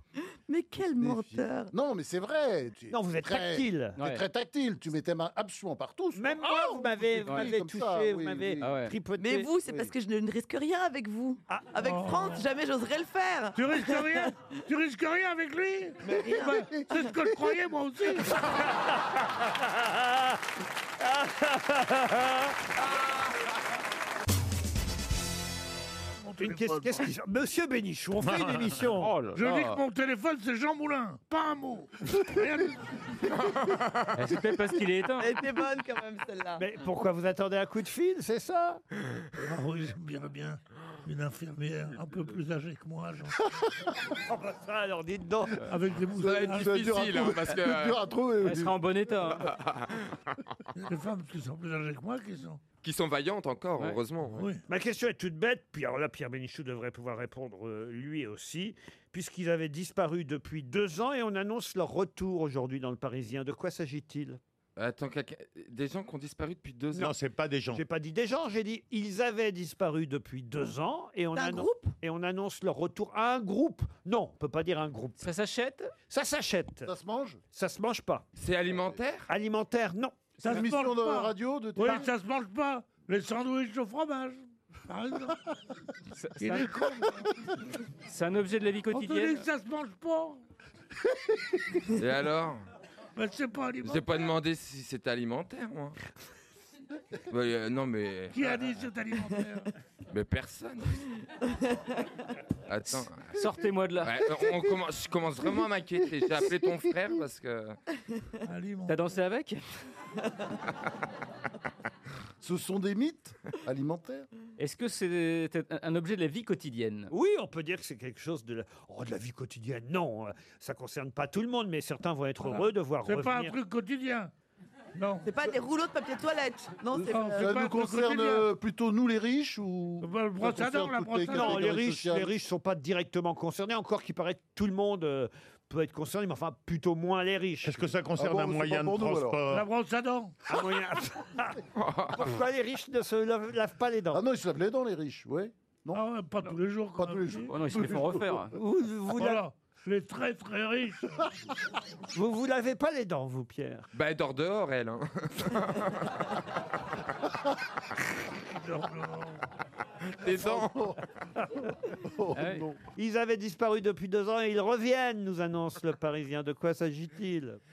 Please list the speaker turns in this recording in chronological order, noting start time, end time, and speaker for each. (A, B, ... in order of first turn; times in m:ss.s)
0:00.5-0:01.7 A
0:00.9-0:08.7 B
0:02.9-0:04.0 C
0:04.0-0:04.2 D
0:06.2-0:09.5 C
0:07.3-0:07.5 D
0:08.6-0:09.0 D
0:09.2-0:14.3 A
0:09.7-0:09.9 B
0:11.8-0:12.5 E
0:13.6-0:18.4 E
0:16.0-0:17.0 A
0:19.8-0:20.3 C
0:21.0-0:22.5 C
0:26.2-0:27.1 E
0:26.4-0:29.1 C
0:29.0-0:29.8 D
0:29.4-0:33.1 E
0:33.4-0:34.1 F
0:34.2-0:35.3 D
0:35.2-0:36.6 A
0:36.6-0:38.8 C
0:39.4-0:43.4 E
0:44.3-0:45.7 C
0:45.7-0:46.8 E
0:46.2-0:48.8 B
0:46.2-0:48.0 F
0:48.4-0:49.5 D
0:49.5-0:50.4 F
0:50.8-0:52.6 E
0:52.8-0:54.5 F
0:54.3-0:54.6 E
0:54.7-1:04.4 C
1:04.8-1:07.1 F
1:07.0-1:07.8 G
1:07.7-1:15.3 C
1:11.4-1:11.9 A
1:15.2-1:15.9 D
1:16.1-1:16.9 C
1:16.8-1:17.4 B
1:17.5-1:18.3 C
1:18.4-1:19.3 F
1:18.7-1:19.0 B
1:19.3-1:20.2 C
1:20.4-1:25.5 E
1:20.4-1:22.1 B
1:26.2-1:26.9 D
1:26.4-1:27.3 E
1:28.1-1:29.5 D
1:28.9-1:30.4 E
1:32.0-1:32.6 F
1:33.2-1:34.3 E
1:33.8-1:36.0 F
1:37.3-1:38.8 F
1:38.3-1:39.7 E
1:40.1-1:41.1 F
1:42.7-1:43.4 F
1:43.3-1:44.4 D
1:44.0-1:47.8 F
1:48.4-1:49.0 E
1:48.9-1:49.6 D
1:52.4-1:54.3 B
1:54.6-1:57.1 D
1:57.1-2:03.6 C
2:02.4-2:04.3 E
2:05.0-2:05.3 E
2:05.2-2:07.6 A
2:06.9-2:12.3 B
2:07.1-2:08.5 E
2:10.0-2:11.8 E
2:11.3-2:17.9 C
2:17.6-2:19.7 G
2:18.2-2:19.4 B
2:19.5-2:20.4 E
2:20.5-2:21.6 C
2:21.8-2:22.3 F
2:22.1-2:24.2 C
2:24.1-2:26.0 B
2:25.9-2:27.5 E
2:27.0-2:28.4 B
2:27.5-2:28.6 D
2:28.5-2:29.4 C
2:29.1-2:31.3 E
2:32.1-2:33.9 C
2:33.9-2:36.3 F
2:38.5-2:39.5 E
2:40.0-2:41.0 F
2:40.2-2:41.0 B
2:41.6-2:42.8 B
2:42.3-2:42.7 D
2:43.0-2:47.6 C